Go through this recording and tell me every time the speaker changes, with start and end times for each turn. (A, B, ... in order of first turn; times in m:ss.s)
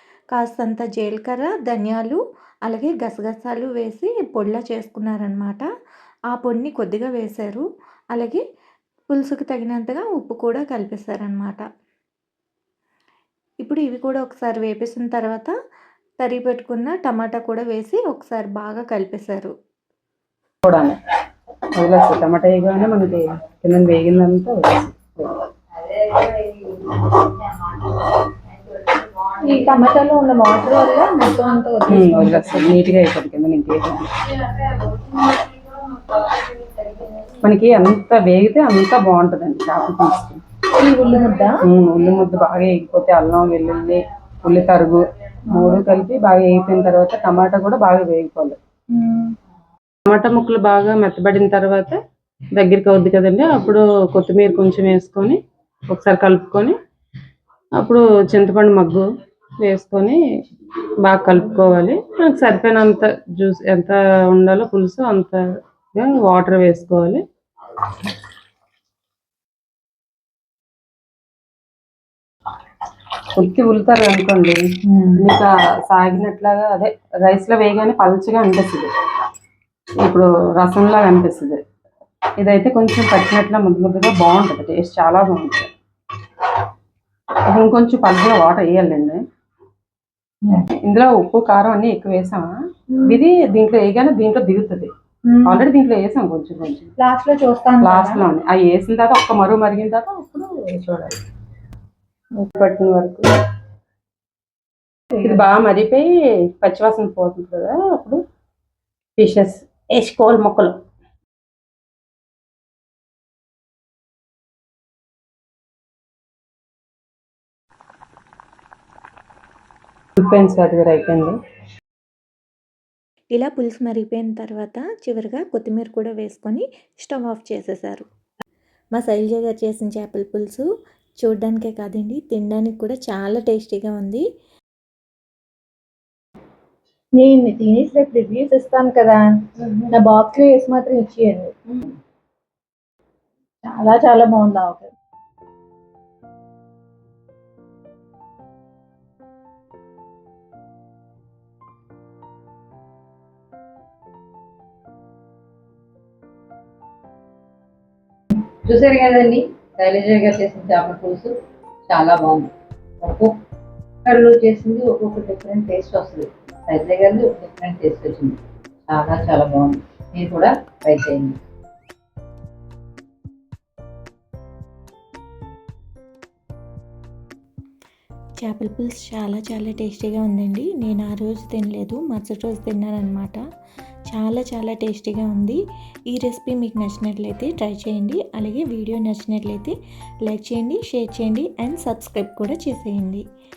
0:00.3-0:05.6 A
0:06.3-0:08.4 A
0:09.1-0:11.6 A
0:13.6-0:15.5 A
0:16.2-0:19.5 A
0:20.6-0:21.0 B
0:21.7-0:25.5 B
0:25.8-0:28.2 C
0:28.7-0:29.3 C
0:29.4-0:32.8 D
0:31.9-0:34.4 B
0:34.6-0:35.1 C
0:35.7-0:36.2 C
0:37.4-0:40.4 B
0:40.8-0:41.6 D
0:41.6-0:48.6 B
0:48.9-0:49.3 D
0:50.0-0:52.0 B
0:52.5-0:56.8 B
0:57.8-0:59.1 B
0:59.6-1:00.2 B
1:01.0-1:07.2 B
1:13.3-1:14.6 B
1:15.2-1:18.9 B
1:20.0-1:21.6 B
1:22.4-1:25.7 B
1:27.5-1:29.2 B
1:30.7-1:34.9 B
1:35.2-1:35.6 D
1:35.4-1:36.9 B
1:37.0-1:38.2 D
1:37.8-1:41.2 B
1:42.4-1:43.3 B
1:45.2-1:46.1 B
1:46.6-1:48.2 B
1:49.2-1:50.8 B
2:00.2-2:01.4 B
2:03.3-2:08.1 A
2:08.9-2:10.6 A
2:11.2-2:14.2 A
2:17.2-2:19.3 D
2:19.9-2:21.5 D
2:23.7-2:24.9 D
2:38.6-2:41.3 C
2:41.9-2:42.5 C
2:43.0-2:43.4 C
2:44.0-2:51.4 C
2:58.4-3:03.4 A
3:04.1-3:09.7 A
3:10.2-3:13.2 A